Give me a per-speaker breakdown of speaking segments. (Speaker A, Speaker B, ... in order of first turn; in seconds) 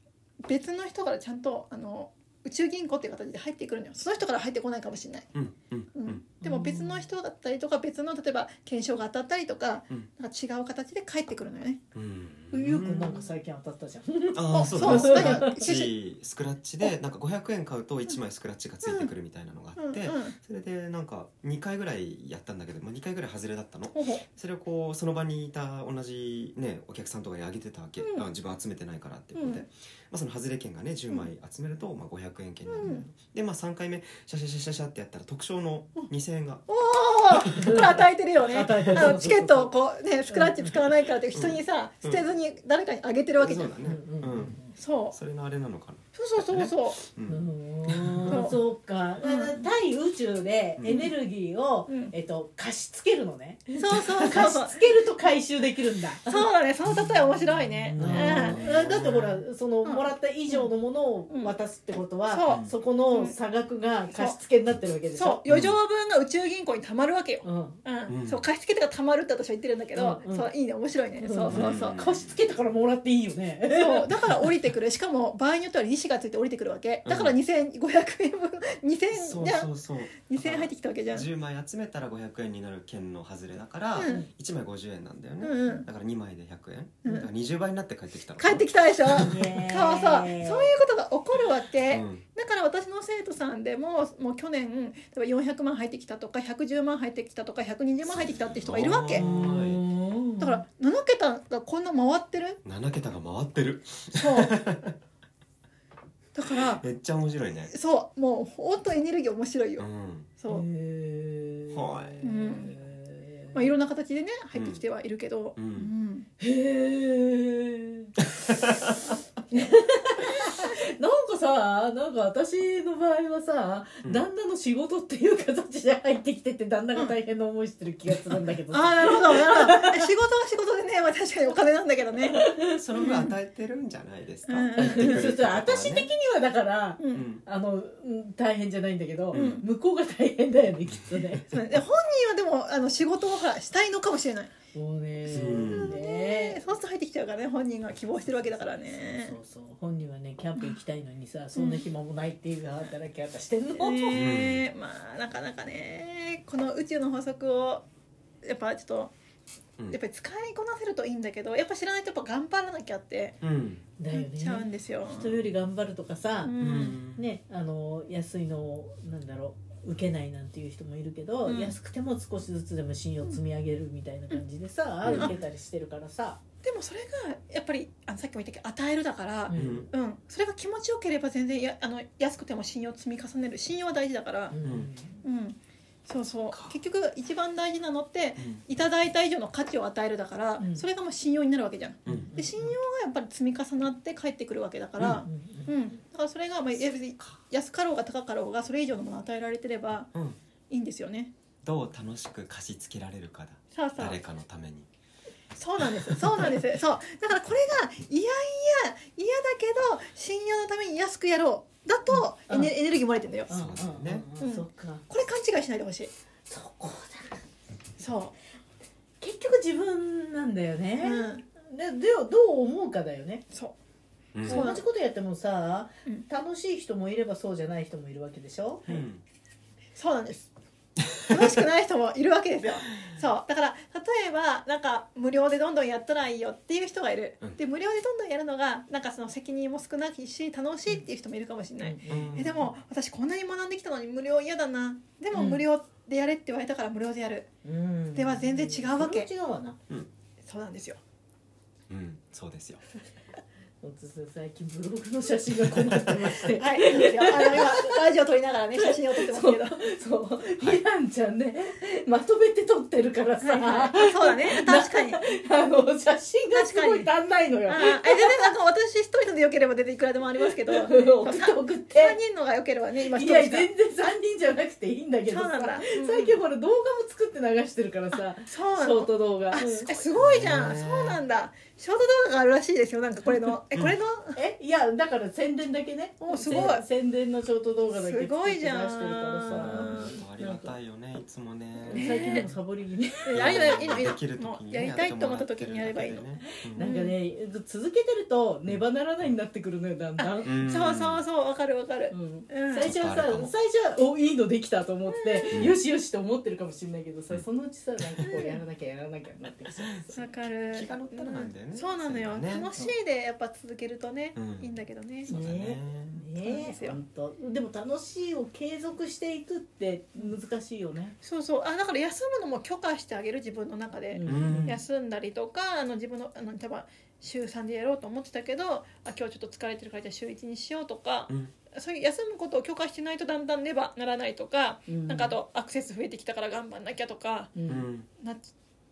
Speaker A: 0.4-5.3, 6.0-11.8, 14.5-15.9, 18.8-19.1, 19.8-20.4, 23.9-24.2, 28.0-28.3, 29.4-29.6, 32.7-33.1, 36.7-43.7, 44.8-45.2, 46.1-47.0, 48.3-48.6, 49.2-49.7, 51.9-52.1, 53.8-55.0, 56.3-58.6, 59.8-60.7, 61.3-61.5, 62.3-63.4, 64.1-64.4, 65.2-72.0, 73.7-81.3, 84.0-84.3, 85.4-85.9, 88.4-99.3, 100.4-102.6, 104.1-104.6, 106.3-106.8, 107.7-109.9, 110.4-110.7, 112.2-112.8, 113.5-116.3, 119.5-119.8, 128.7-132.4, 133.0-133.3, 134.5-135.3, 137.0-137.3, 139.3-139.7, 141.5-144.5, 145.6-149.4, 151.6-151.8, 153.8-157.8, 158.4-159.1, 159.9-163.4, 164.1-165.4, 166.4-167.0, 171.5-171.8, 176.6-184.6, 185.2-200.1, 200.7-201.3, 203.7-204.2, 205.6-213.5, 214.4-216.1, 218.0-218.3, 221.0-221.4, 223.5-223.8, 224.4-224.8, 230.0-230.5, 231.2-247.5, 248.1-249.3, 250.4-251.0, 256.6-259.8, 263.4-265.2, 266.5-267.1, 267.7-274.1, 275.3-276.4, 278.1-284.4, 286.2-286.9, 287.9-290.2, 291.9-292.5, 293.2-297.2, 300.2-302.9, 305.1-305.7, 308.2-308.6, 310.1-315.4, 316.4-317.0, 321.2-337.5, 338.2-338.5
Speaker B: 5.3-6.2, 11.9-13.2, 14.3-36.7, 37.5-37.9, 38.6-39.1, 41.3-42.2, 43.4-48.5, 50.8-51.1, 58.0-59.4, 65.5-65.8, 68.1-68.4, 71.5-72.4, 77.0-77.4, 79.1-89.4, 91.9-92.2, 98.1-99.8, 102.6-105.0, 106.5-107.7, 109.8-110.3, 111.7-112.3, 114.5-114.8, 115.6-115.9, 118.3-119.0, 132.7-136.1, 137.1-137.4, 139.3-139.6, 145.3-145.9, 154.1-154.7, 163.4-163.8, 166.6-167.2, 175.0-175.4, 179.5-179.9, 184.6-184.9, 192.1-192.3, 201.6-204.9, 206.1-206.6, 213.5-214.3, 224.3-224.6, 228.9-229.2, 242.1-242.7, 251.9-252.8, 255.7-256.3, 280.2-281.2, 289.5-292.5, 293.3-296.9, 300.4-301.2, 302.8-303.5, 305.5-305.8, 308.0-308.3, 310.7-312.7, 314.4-314.7, 315.3-316.2, 324.2-324.8, 337.7-338.1
Speaker C: 6.4-7.1, 12.5-15.7, 32.8-33.1, 37.5-39.7, 40.3-40.7, 43.8-44.7, 47.3-56.5, 57.9-65.4, 67.4-67.8, 70.0-70.5, 71.2-74.5, 84.0-84.3, 89.1-90.7, 99.2-100.6, 110.5-113.7, 116.4-118.2, 119.5-130.1, 132.3-132.8, 134.8-141.5, 144.7-146.6, 148.6-154.2, 164.0-176.4, 179.5-179.9, 184.5-185.2, 190.6-190.9, 192.1-192.8, 195.2-195.8, 212.1-212.7, 213.5-215.1, 216.5-217.4, 219.2-223.4, 224.4-228.9, 241.8-242.7, 245.3-245.6, 247.6-249.8, 253.8-258.0, 258.8-268.5, 270.7-272.2, 273.0-280.1, 284.4-290.8, 291.8-293.5, 296.6-300.7, 302.1-310.2, 315.3-321.2, 324.1-324.8, 334.9-335.4, 337.6-337.9